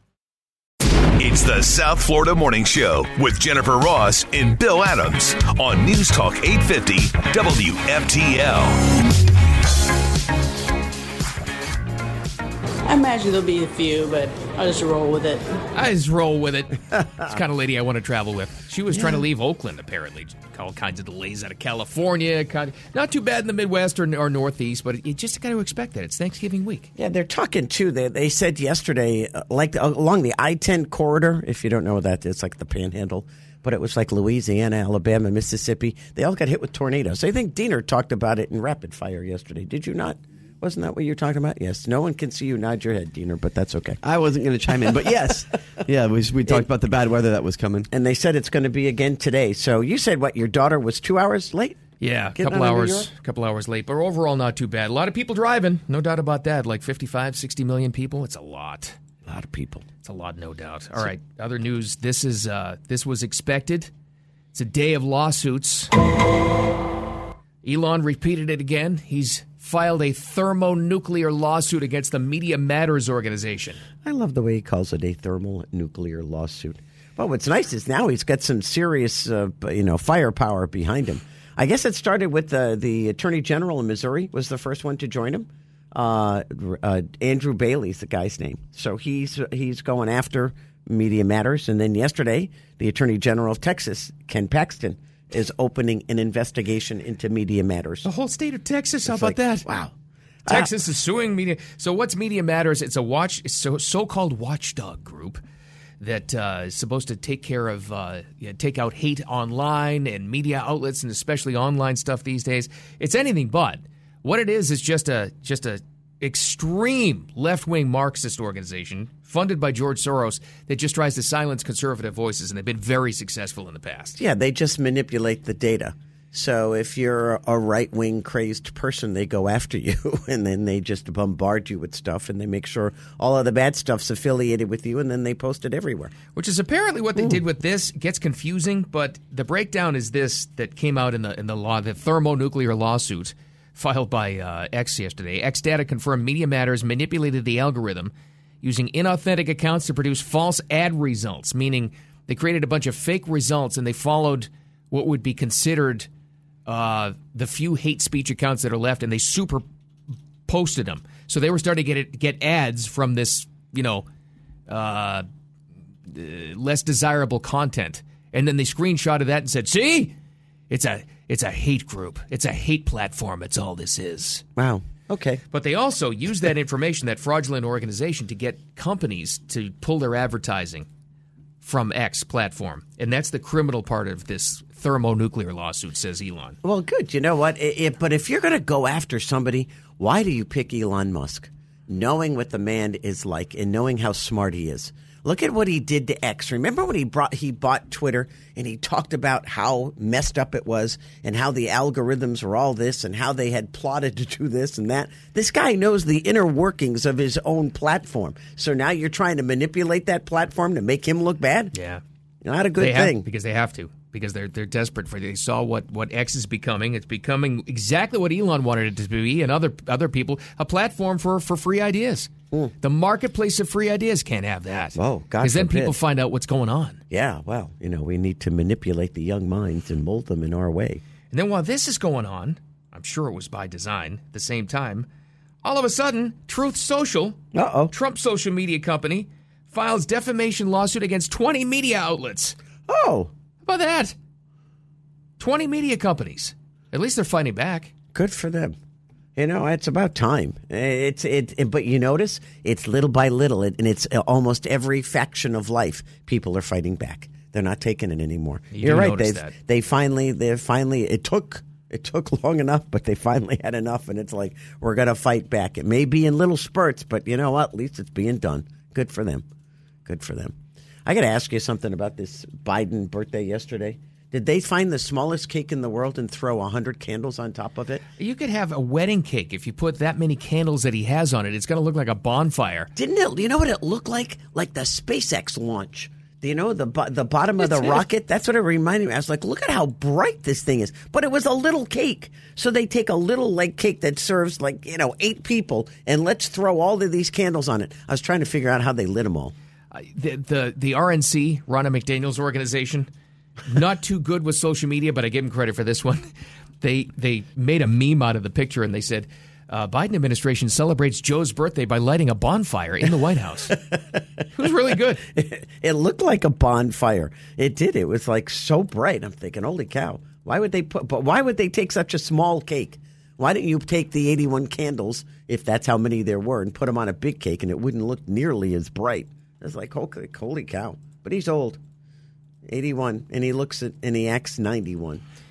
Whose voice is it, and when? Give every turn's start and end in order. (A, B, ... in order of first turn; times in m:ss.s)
0:01.2-0:08.8 A
0:12.8-0:15.5 B
0:15.7-0:26.9 C
0:16.9-0:17.3 D
0:18.9-0:19.2 D
0:27.0-0:44.0 D
0:44.0-0:47.9 E
0:44.8-0:45.2 D
0:47.9-0:51.8 D
0:52.0-0:59.0 C
0:52.3-0:53.1 D
0:59.2-0:59.8 D
1:00.0-1:03.9 C
1:04.5-1:05.9 C
1:07.6-1:13.8 C
1:14.0-1:38.1 D
1:38.0-1:39.7 C
1:39.0-1:39.9 D
1:40.5-1:45.4 C
1:46.0-2:04.2 C
2:04.2-2:16.1 D
2:16.3-2:36.1 C
2:36.6-2:39.6 C
2:40.5-2:44.0 C
2:44.7-2:45.2 C
2:46.1-2:50.1 C
2:50.7-2:54.4 C
2:54.6-2:55.4 D
2:55.5-3:00.9 C
3:01.6-3:06.6 C
3:06.6-3:31.7 D
3:31.7-3:32.0 C
3:32.4-3:33.2 D
3:32.8-3:42.3 C
3:42.8-3:47.0 C
3:45.0-3:46.0 D
3:47.1-3:51.0 D
3:51.3-3:55.1 C
3:55.6-3:57.4 C
3:57.5-3:57.9 D
3:57.9-4:02.6 C
4:02.9-4:03.3 D
4:03.6-4:04.1 C
4:05.4-4:07.9 C
4:08.1-4:08.7 D
4:09.4-4:29.4 D
4:18.7-4:19.5 C
4:30.0-4:30.5 D
4:31.0-4:38.0 D
4:38.2-4:42.9 C
4:42.9-4:59.5 D
4:47.6-4:48.0 C
4:59.9-5:03.1 C
5:03.6-5:06.3 C
5:06.8-5:13.8 C
5:14.5-5:15.2 C
5:15.3-5:31.8 D
5:32.6-5:35.2 D